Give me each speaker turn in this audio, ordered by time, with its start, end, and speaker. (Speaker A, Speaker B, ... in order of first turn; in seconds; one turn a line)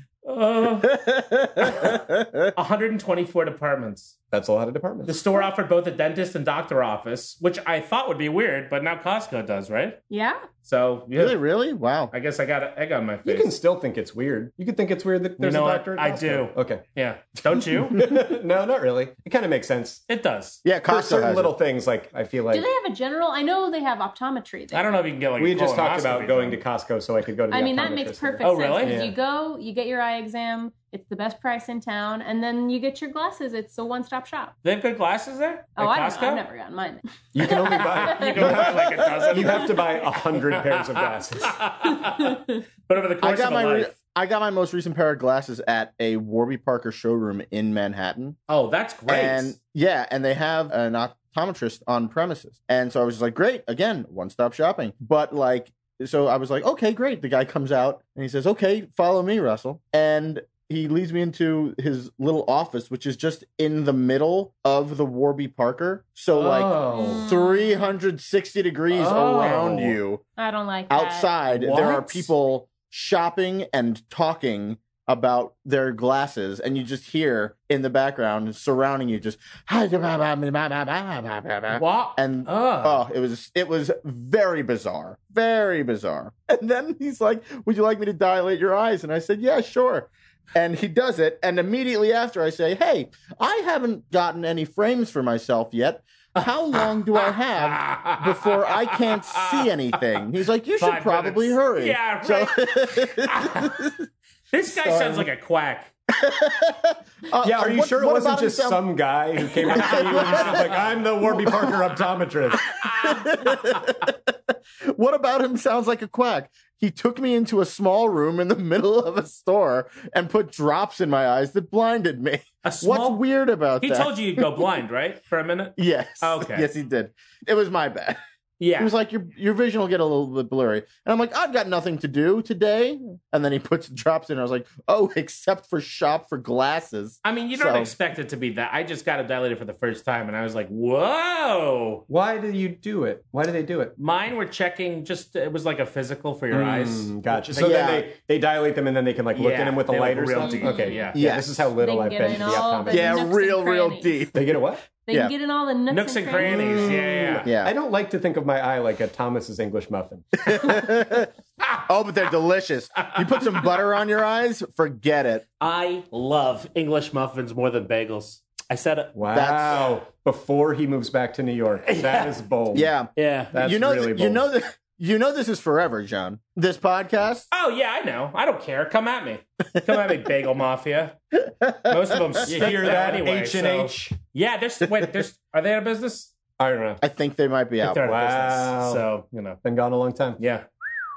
Speaker A: 0.2-1.0
Speaker B: 1.1-2.5
Speaker A: 2.5-4.1
Speaker C: 4.3-5.2
Speaker A: 5.0-10.0
Speaker D: 10.1-10.4
Speaker A: 10.6-11.4
Speaker B: 11.2-12.1
Speaker A: 12.1-13.5
Speaker C: 13.2-16.8
Speaker A: 15.4-18.1
Speaker C: 17.9-20.0
Speaker A: 20.1-20.6
Speaker B: 20.6-21.5
Speaker C: 20.9-22.7
Speaker D: 22.5-24.9
Speaker A: 24.7-26.6
Speaker C: 25.4-29.1
Speaker D: 27.5-34.5
Speaker A: 28.4-29.0
Speaker A: 34.6-36.4
Speaker D: 35.8-39.8
Speaker C: 37.3-41.6
Speaker A: 37.9-39.8
Speaker A: 40.5-43.9
Speaker B: 43.2-48.4
Speaker A: 48.5-49.5
Speaker B: 49.1-70.2
Speaker C: 66.3-67.2
Speaker A: 66.8-67.2
Speaker D: 67.0-67.8
Speaker C: 69.0-69.9
Speaker A: 69.1-69.8
Speaker D: 70.4-71.8
Speaker B: 70.9-103.9
Speaker A: 71.6-72.2
Speaker A: 81.7-83.0
Speaker A: 97.1-99.7
Speaker A: 100.8-103.8
Speaker A: 104.5-105.9
Speaker B: 104.7-105.2
Speaker B: 106.2-108.9
Speaker C: 107.4-112.8
Speaker B: 109.7-110.5
Speaker A: 109.9-110.6
Speaker B: 111.4-111.7
Speaker B: 112.9-114.1
Speaker B: 114.9-124.4
Speaker A: 122.6-123.2
Speaker A: 123.8-126.7
Speaker B: 125.8-128.2
Speaker A: 128.6-128.9
Speaker B: 128.8-137.9
Speaker A: 137.2-142.0
Speaker C: 142.1-143.9
Speaker A: 144.0-147.8
Speaker C: 146.5-153.3
Speaker B: 147.5-148.1
Speaker A: 149.3-151.2
Speaker D: 150.4-151.1
Speaker B: 151.1-151.7
Speaker D: 151.8-154.2
Speaker B: 152.9-154.6
Speaker C: 154.3-154.9
Speaker D: 155.1-156.9
Speaker A: 155.9-157.4
Speaker C: 156.4-160.7
Speaker B: 157.4-157.7
Speaker B: 160.4-161.3
Speaker B: 161.8-165.4
Speaker A: 165.6-169.1
Speaker C: 169.1-172.9
Speaker B: 169.3-169.9
Speaker A: 171.8-172.3
Speaker B: 172.7-177.5
Speaker A: 173.2-173.5
Speaker C: 173.5-174.5
Speaker A: 177.5-181.2
Speaker A: 181.8-186.3
Speaker C: 182.4-184.2
Speaker C: 186.6-187.0
Speaker B: 187.0-188.0
Speaker A: 187.8-189.6
Speaker C: 188.0-189.0
Speaker C: 189.6-190.4
Speaker A: 190.4-190.6